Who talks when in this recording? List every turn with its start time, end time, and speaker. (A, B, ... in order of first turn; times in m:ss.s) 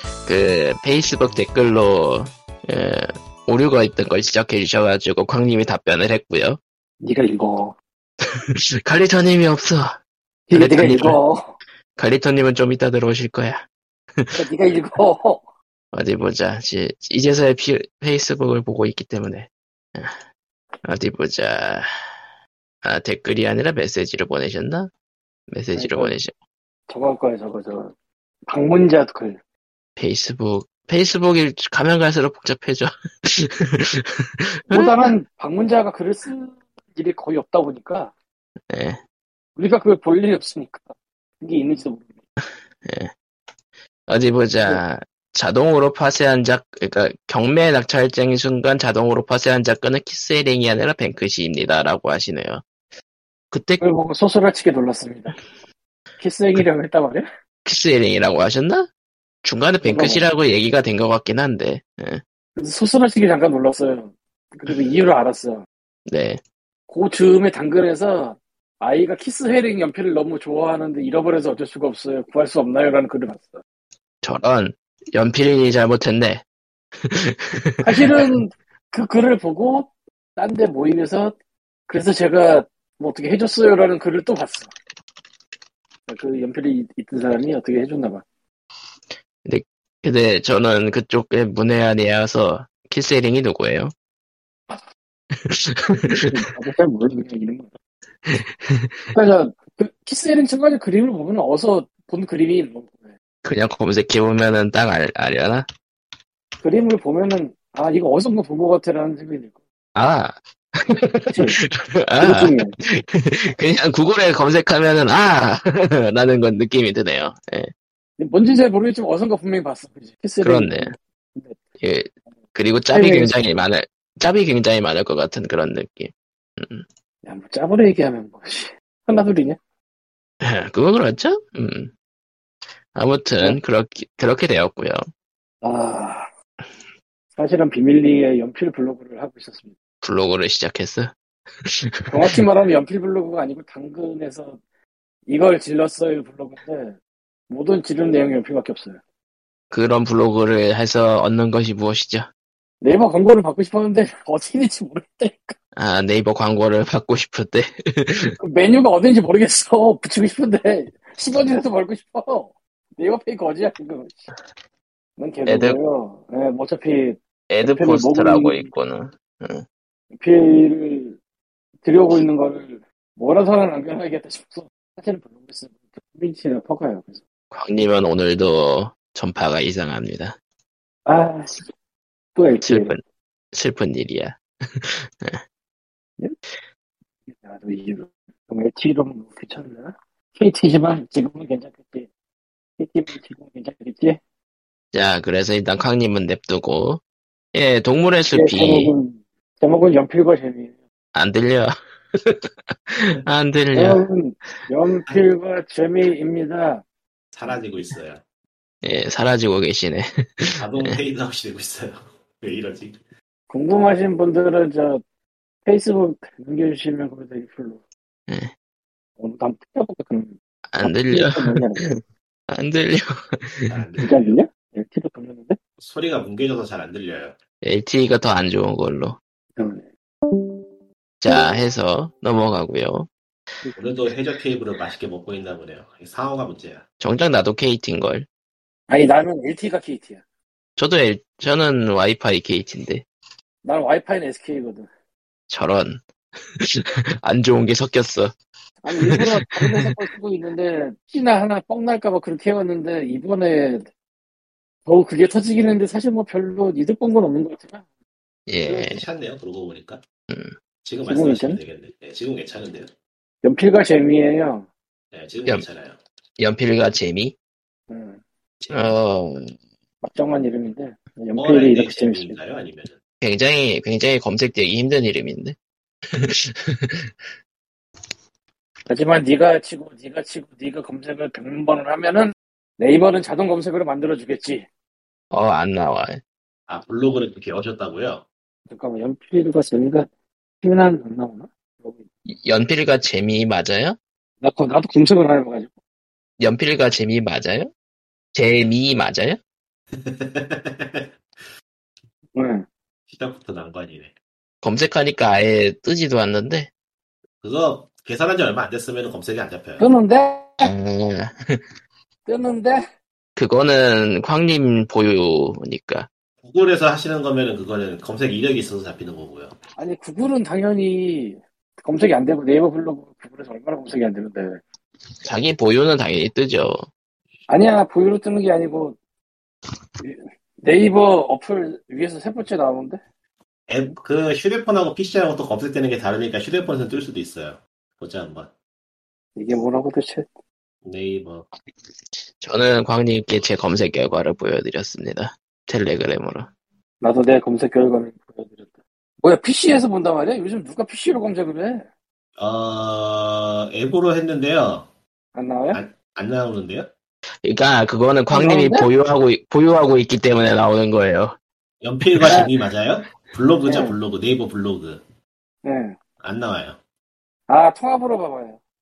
0:00.2-0:06.6 A
0:07.0-0:07.7 B
0:08.8-0:10.0 A
0:10.5-0:11.6 B
0:10.5-0:11.2 A
0:12.0-0:13.6 A
0:14.3-0:15.4 B
0:15.9-0:20.2 A
0:20.8-0:21.9 A
0:22.8-0:24.9 A
0:25.5-0:26.3 A
0:25.7-0:26.1 B
0:26.9-0:27.9 B
0:28.5-0:29.4 B
0:30.0-0:35.1 A
0:34.7-0:38.1 B
0:38.7-0:39.0 A
0:39.6-0:42.1 B
0:42.8-0:43.1 A
0:44.1-0:52.6 A
0:53.5-0:53.8 A
0:53.8-0:55.4 B
0:56.2-0:57.2 B
0:57.6-0:58.9 A
0:59.4-1:02.2 A
0:59.8-1:00.2 B
1:02.6-1:05.6 B
1:06.1-1:06.4 A
1:06.9-1:13.6 B
1:14.2-1:16.4 A
1:17.0-1:18.2 A
1:17.8-1:21.4 B
1:21.9-1:24.7 B
1:26.1-1:28.2 B
1:29.4-1:33.9 A
1:35.3-1:36.2 A
1:36.3-1:37.7 B
1:38.3-1:39.1 A
1:39.1-1:43.1 B
1:43.4-1:45.6 A
1:46.6-1:49.6 B
1:49.9-1:57.7 A
1:51.3-1:51.6 B
1:52.2-1:52.7 B
1:58.2-2:01.6 B
2:00.4-2:00.9 A
2:01.8-2:06.8 A
2:02.9-2:03.4 B
2:07.2-2:09.6 B
2:10.4-2:11.9 A
2:12.9-2:15.0 A
2:15.6-2:16.3 B
2:17.4-2:19.7 B
2:20.0-2:21.1 A
2:21.6-2:22.4 A
2:22.1-2:24.6 B
2:25.3-2:27.0 B
2:27.5-2:29.0 B
2:29.7-2:32.3 A
2:32.8-2:35.6 B
2:35.8-2:38.4 A
2:38.4-2:44.3 B
2:45.2-2:48.7 B
2:45.4-2:45.8 A
2:47.5-2:49.6 A
2:50.1-2:51.2 B
2:51.8-2:57.2 B
2:57.5-3:00.4 A
3:01.0-3:01.7 B
3:02.4-3:03.0 B
3:02.6-3:03.0 A
3:03.5-3:05.4 A
3:07.3-3:12.1 B
3:12.8-3:14.2 B
3:14.9-3:17.0 A
3:17.5-3:18.9 A
3:18.3-3:20.8 B
3:21.1-3:24.0 A
3:23.7-3:26.8 B
3:27.3-3:28.2 C
3:28.8-3:31.0 A
3:30.6-3:33.0 C
3:33.5-3:35.0 B
3:35.6-3:37.8 B
3:39.2-3:41.9 B
3:40.7-3:42.0 A
3:42.5-3:43.7 A
3:43.7-3:44.4 C
3:44.0-3:45.6 B
3:45.8-3:47.4 C
3:47.6-3:49.2 A
3:49.6-3:49.8 B
3:51.2-3:53.1 A
3:53.8-3:56.8 C
3:57.0-3:58.3 A
3:58.9-4:00.2 B
4:00.8-4:03.0 A
4:03.6-4:04.9 B
4:05.5-4:06.0 A
4:06.6-4:08.3 A
4:08.8-4:13.9 B
4:08.9-4:09.8 A
4:14.8-4:17.8 B
4:18.5-4:19.0 A
4:18.6-4:20.0 C
4:20.8-4:22.9 C
4:21.1-4:21.6 B
4:23.4-4:24.7 B
4:25.1-4:26.0 C
4:26.4-4:27.3 A
4:27.9-4:28.2 B
4:28.6-4:28.9 C
4:28.7-4:29.5 A
4:30.0-4:32.4 B
4:31.4-4:33.0 C
4:33.2-4:35.6 A
4:36.1-4:37.1 A
4:38.9-4:44.6 B
4:45.3-4:46.2 A
4:46.7-4:48.2 C
4:48.7-4:50.1 B
4:50.6-4:52.0 B
4:52.3-4:54.0 A
4:54.4-4:55.7 B
4:56.4-4:57.7 A
4:58.3-4:59.4 A
4:59.9-5:01.1 C
5:02.3-5:02.6 B
5:03.1-5:04.1 C
5:04.6-5:06.7 A
5:07.4-5:09.9 C
5:09.8-5:10.7 B
5:10.6-5:11.6 A
5:12.2-5:12.8 B
5:13.4-5:16.1 A
5:16.4-5:19.5 C
5:19.8-5:24.6 B
5:25.2-5:26.8 A
5:27.5-5:29.0 B
5:30.0-5:33.0 B
5:33.7-5:38.5 C
5:39.4-5:40.3 B
5:40.8-5:41.4 C
5:42.4-5:46.5 A
5:47.0-5:51.8 B
5:52.4-5:54.9 C
5:55.3-5:55.8 B
5:55.7-5:56.9 C
5:57.4-6:01.4 A
5:58.3-5:58.9 B
6:01.8-6:05.0 C
6:02.2-6:02.5 B
6:03.6-6:03.9 B
6:05.6-6:06.0 B
6:06.2-6:06.8 C
6:07.5-6:08.6 B